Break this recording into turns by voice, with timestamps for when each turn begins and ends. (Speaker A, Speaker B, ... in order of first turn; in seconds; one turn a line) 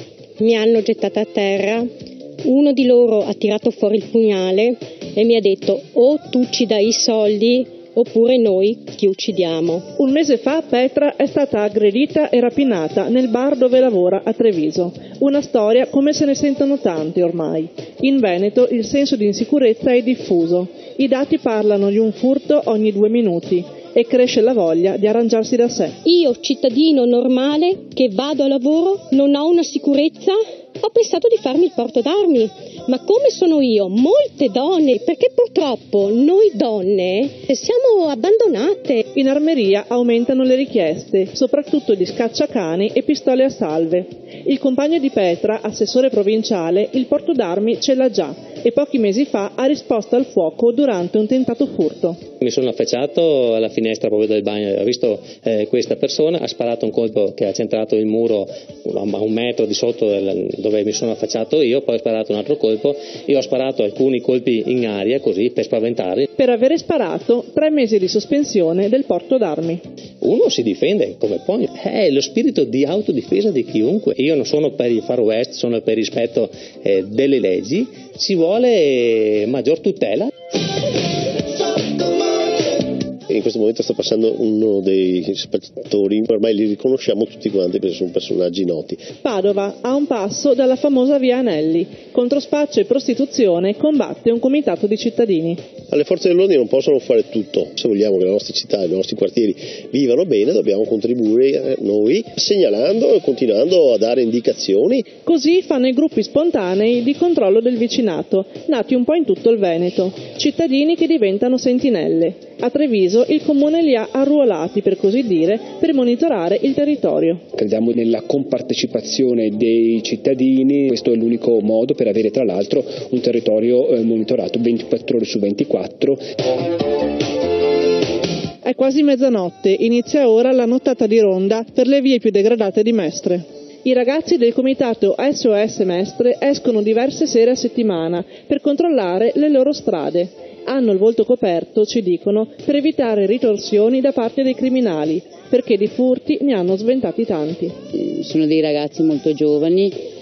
Speaker A: 0.4-1.8
Speaker A: 2.4-9.8
Speaker B: 10.0-26.0
Speaker A: 26.1-39.0
Speaker B: 39.1-52.2
Speaker C: 52.4-66.3
Speaker B: 66.4-69.8
Speaker C: 70.2-80.3
Speaker D: 83.3-89.0
Speaker B: 89.2-95.6
Speaker D: 95.9-105.1
Speaker B: 105.2-117.4
Speaker E: 117.6-126.2
Speaker B: 128.6-147.8
Speaker F: 147.9-150.0